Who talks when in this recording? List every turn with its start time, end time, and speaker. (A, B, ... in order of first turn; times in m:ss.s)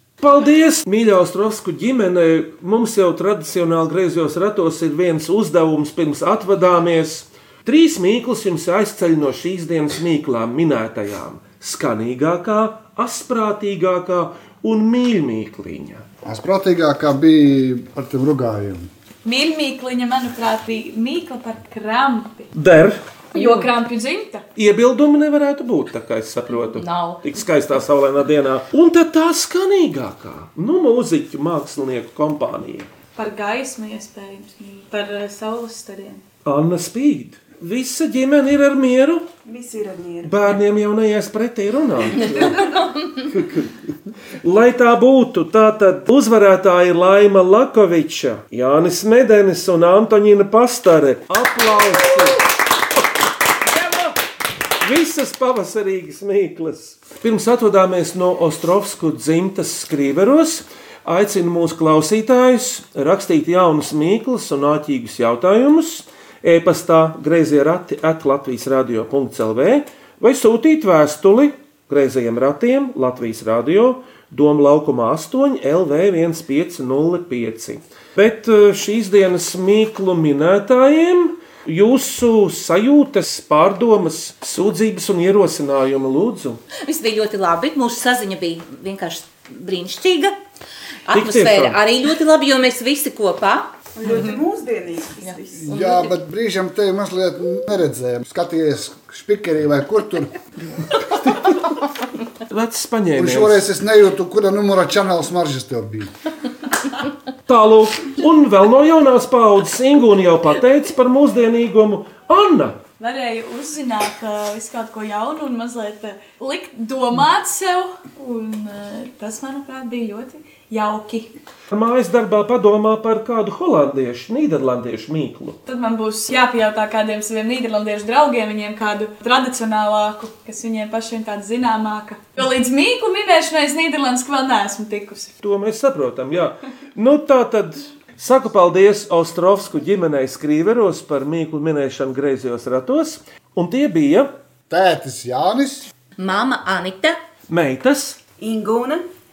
0:00.2-0:16.0 A
0:16.2-0:18.9 B
0:19.2-0:22.5 C
0:22.5-0:23.0 A
0:23.3-0:24.4 C
0:24.6-0:32.9 A
0:26.8-0:27.2 D
0:33.2-0:36.2 C
0:36.4-0:39.2 A
0:39.4-0:40.5 E
0:40.2-0:42.6 A
0:43.3-0:43.7 A
0:44.4-0:52.4 A
0:53.8-0:54.1 A
0:54.8-1:26.6 A
1:26.8-1:30.3 D
1:31.0-1:34.4 D
1:31.1-1:31.8 A
1:33.9-1:35.8 E
1:35.2-1:36.1 D
1:35.5-1:40.3 B
1:42.5-1:43.6 A
1:43.1-1:46.1 B
1:47.5-1:52.8 A
1:53.0-2:01.3 C
2:01.7-2:05.6 A
2:05.6-2:15.3 C
2:15.4-2:24.3 A
2:24.7-2:25.9 B
2:26.2-2:27.2 D
2:27.5-2:28.2 A
2:28.4-2:29.0 E